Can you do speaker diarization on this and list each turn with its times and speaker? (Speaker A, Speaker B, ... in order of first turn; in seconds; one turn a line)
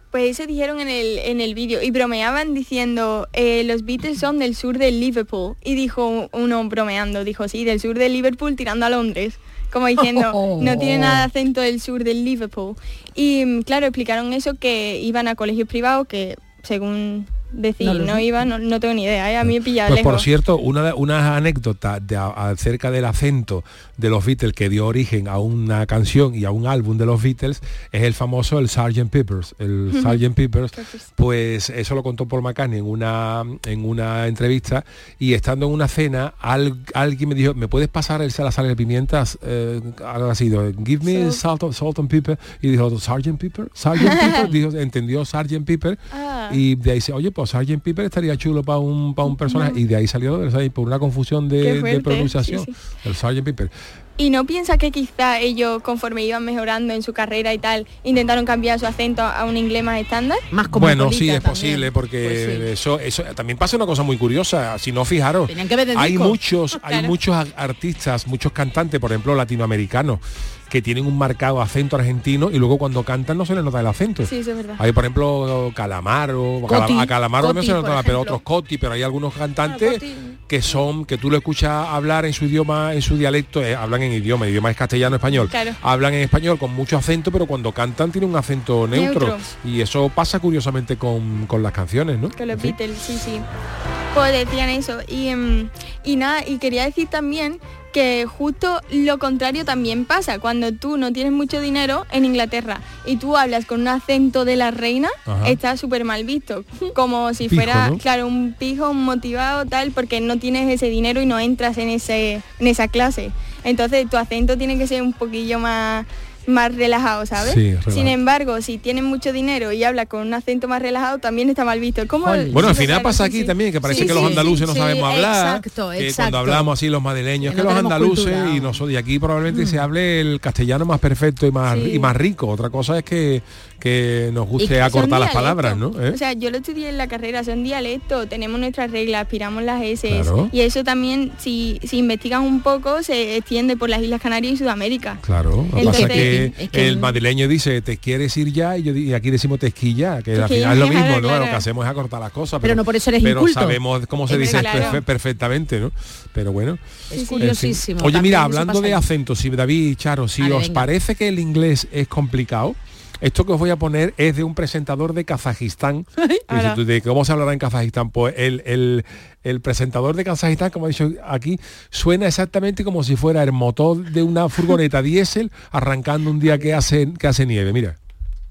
Speaker A: 0.1-20.3
Speaker B: 10.0-11.3
Speaker B: 17.8-18.4
Speaker C: 19.9-46.0
Speaker A: 29.9-30.2
Speaker A: 30.8-31.1
Speaker A: 41.0-41.4
Speaker A: 44.0-44.5
Speaker A: 46.1-46.6
Speaker C: 46.5-53.7
Speaker A: 49.3-49.8
Speaker A: 51.6-52.7
Speaker A: 54.2-60.5
Speaker B: 60.5-62.7
Speaker C: 60.7-92.8
Speaker B: 65.5-66.4
Speaker A: 66.9-67.1
Speaker A: 74.2-74.8
Speaker B: 76.7-78.4
Speaker B: 79.7-80.3
Speaker A: 85.5-85.8
Speaker A: 88.9-89.4
Speaker A: 92.3-93.4
Speaker A: 94.1-124.6
Speaker C: 105.3-105.6
Speaker C: 107.5-108.0
Speaker C: 117.4-118.1
Speaker B: 122.2-122.8
Speaker C: 122.5-136.2
Speaker B: 123.9-126.7
Speaker B: 127.4-128.8
Speaker B: 129.5-129.8
Speaker A: 131.7-132.1
Speaker A: 134.6-145.2
Speaker C: 140.1-140.5
Speaker C: 145.2-156.8
Speaker A: 145.8-146.4
Speaker B: 145.8-147.2
Speaker A: 150.3-151.7
Speaker B: 152.6-155.0
Speaker A: 154.3-155.0
Speaker B: 157.1-159.1
Speaker A: 157.1-157.5
Speaker C: 157.4-177.9
Speaker B: 160.4-160.9
Speaker A: 166.5-166.8